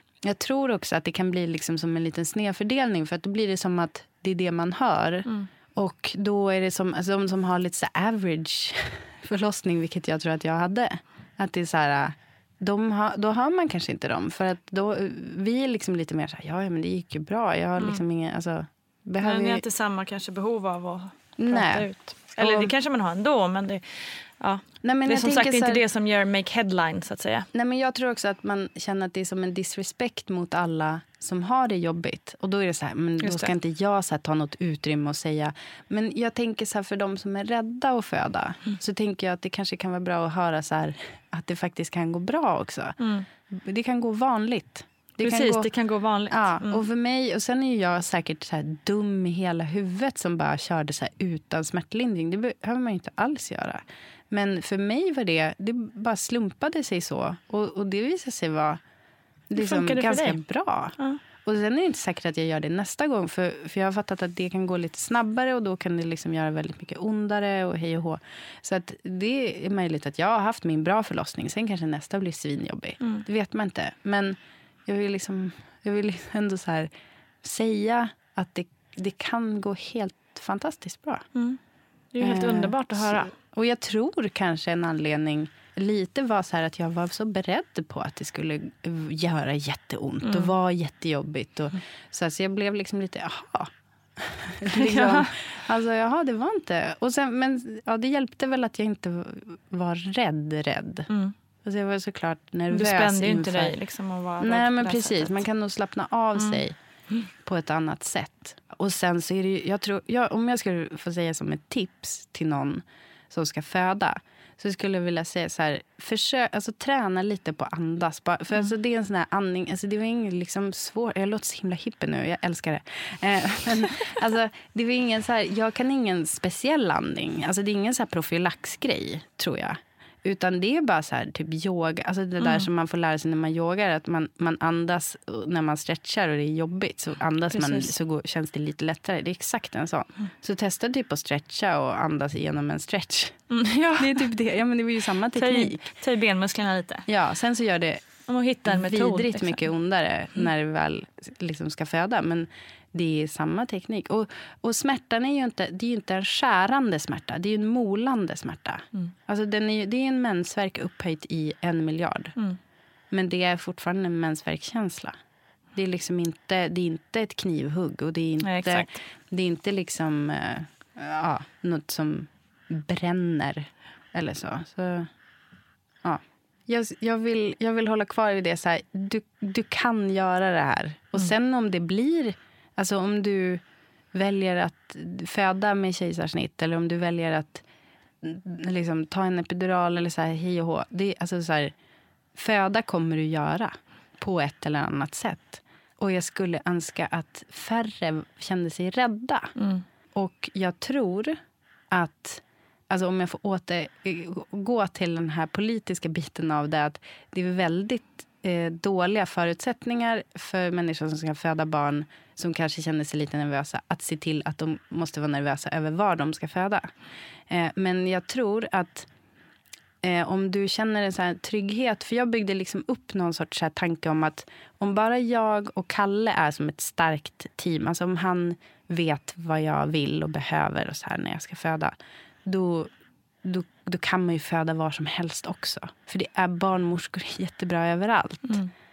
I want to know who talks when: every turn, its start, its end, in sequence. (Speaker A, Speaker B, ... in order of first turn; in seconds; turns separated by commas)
Speaker A: 0.2-19.6, Speaker B: 17.8-18.0, Speaker B: 19.2-27.5, Speaker A: 21.4-22.7, Speaker A: 24.8-25.8, Speaker A: 27.5-43.0, Speaker B: 33.2-33.5, Speaker B: 43.0-43.2, Speaker A: 43.5-45.7, Speaker B: 45.2-46.8, Speaker A: 46.3-58.8, Speaker A: 59.5-76.9, Speaker B: 59.6-60.4, Speaker A: 77.4-81.2, Speaker B: 82.1-83.3, Speaker A: 82.2-101.1, Speaker B: 90.2-90.5, Speaker B: 94.7-95.3, Speaker A: 101.6-103.8, Speaker B: 102.7-105.4, Speaker A: 104.4-106.8, Speaker A: 107.4-145.8, Speaker B: 132.4-132.7, Speaker B: 137.5-137.9, Speaker B: 143.5-144.2, Speaker B: 145.3-147.1, Speaker A: 147.1-148.0, Speaker B: 148.3-149.7, Speaker A: 148.6-162.3, Speaker A: 163.1-165.1, Speaker A: 165.7-175.1, Speaker B: 168.4-168.9, Speaker A: 176.0-183.6, Speaker A: 184.1-187.6, Speaker A: 188.2-191.7, Speaker A: 192.3-199.5, Speaker B: 199.6-199.8, Speaker A: 200.1-201.4, Speaker A: 201.9-216.9, Speaker A: 217.5-219.1, Speaker A: 220.0-232.9, Speaker A: 233.4-238.6, Speaker B: 238.4-238.7